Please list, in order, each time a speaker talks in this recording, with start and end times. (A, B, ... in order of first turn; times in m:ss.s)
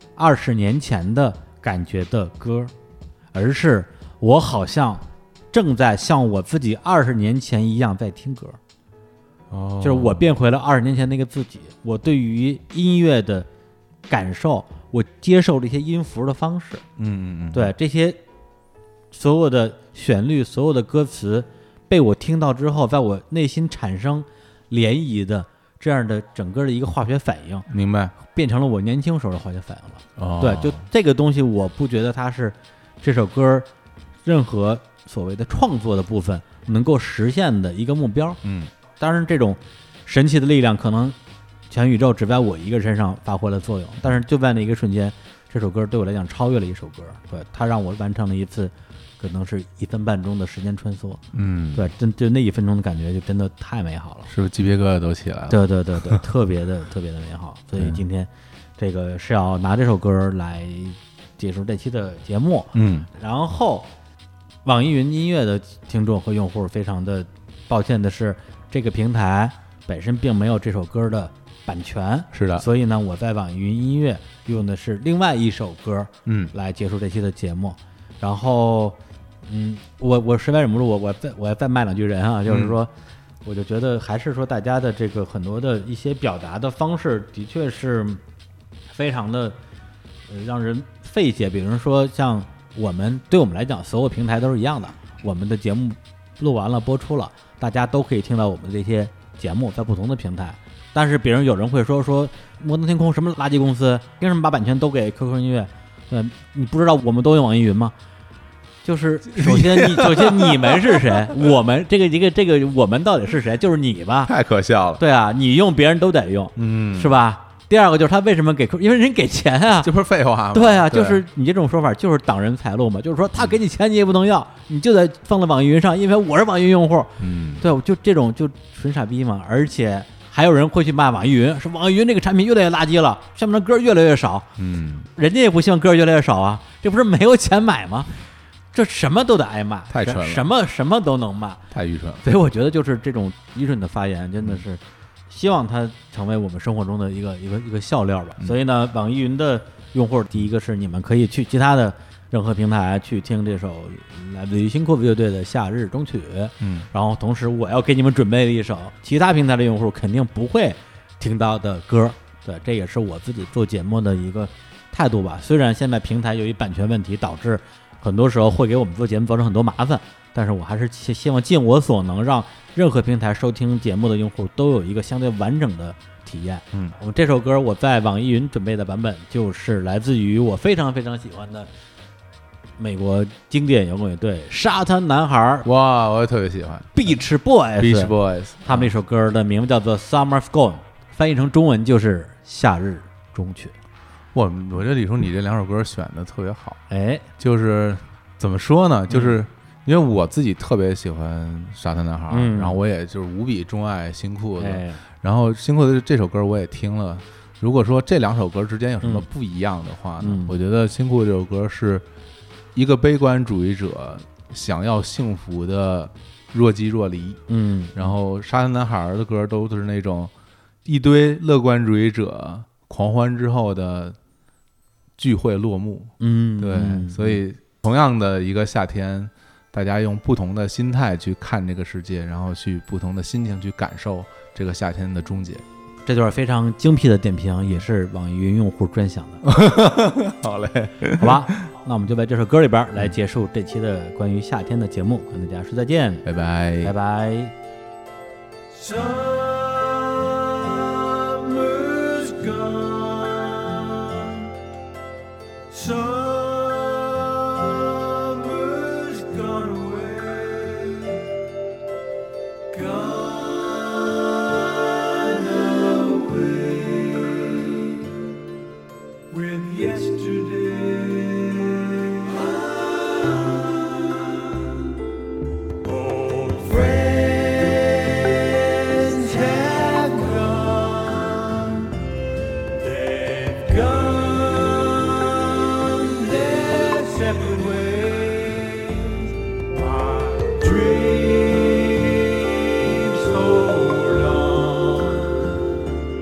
0:00.2-0:02.7 A
0:03.3-0:08.6 A
0:09.5-0:10.2 B
0:09.8-0:13.5 A
0:14.1-0:16.8 A
0:17.0-0:17.7 B
0:17.5-0:18.2 A
0:19.1-0:33.7 A
0:27.7-0:28.1 B
0:30.2-0:30.8 B
0:34.2-0:38.4 A
0:38.4-0:38.7 B
0:39.0-0:41.2 A
0:41.7-0:51.2 A
0:51.3-0:51.9 B
0:51.7-0:54.3 A
0:54.3-0:56.2 B
0:55.5-1:03.9 A
0:57.8-0:58.0 B
1:02.7-1:03.1 B
1:04.6-1:22.9 A
1:12.3-1:12.7 B
1:16.2-1:16.5 B
1:22.4-1:22.8 B
1:23.4-1:28.2 A
1:28.9-1:29.6 A
1:30.3-1:47.9 A
1:48.8-1:54.3 A
1:49.3-1:51.5 B
1:54.2-1:55.0 B
1:55.0-1:59.9 A
1:56.6-1:57.2 B
1:59.8-2:01.2 B
2:00.5-2:14.5 A
2:07.2-2:07.7 B
2:14.6-2:15.1 B
2:15.2-2:18.1 A
2:18.7-2:21.6 A
2:19.9-2:20.5 B
2:21.7-2:22.2 B
2:22.2-3:01.7 A
2:36.6-2:36.9 B
3:02.8-3:05.7 A
3:05.6-3:07.2 B
3:06.9-3:08.1 A
3:07.8-3:08.9 B
3:08.6-3:13.7 A
3:14.3-3:16.8 B
3:16.9-3:17.2 A
3:17.4-3:32.0 B
3:19.1-3:19.4 A
3:22.3-3:22.8 A
3:24.6-3:25.0 A
3:30.2-3:30.5 A
3:32.7-3:37.4 B
3:37.5-3:38.0 A
3:37.9-3:40.3 B
3:40.8-3:44.2 B
3:45.2-3:55.6 B
3:46.2-3:47.4 A
3:56.0-3:59.4 A
3:59.4-4:01.5 B
4:01.2-4:06.2 A
4:06.2-4:06.9 B
4:06.8-4:07.5 A
4:08.7-4:14.4 C
4:15.7-4:21.2 C
4:22.7-4:28.0 C
4:29.3-4:34.7 C
4:35.8-4:41.9 C
4:42.8-4:55.4 C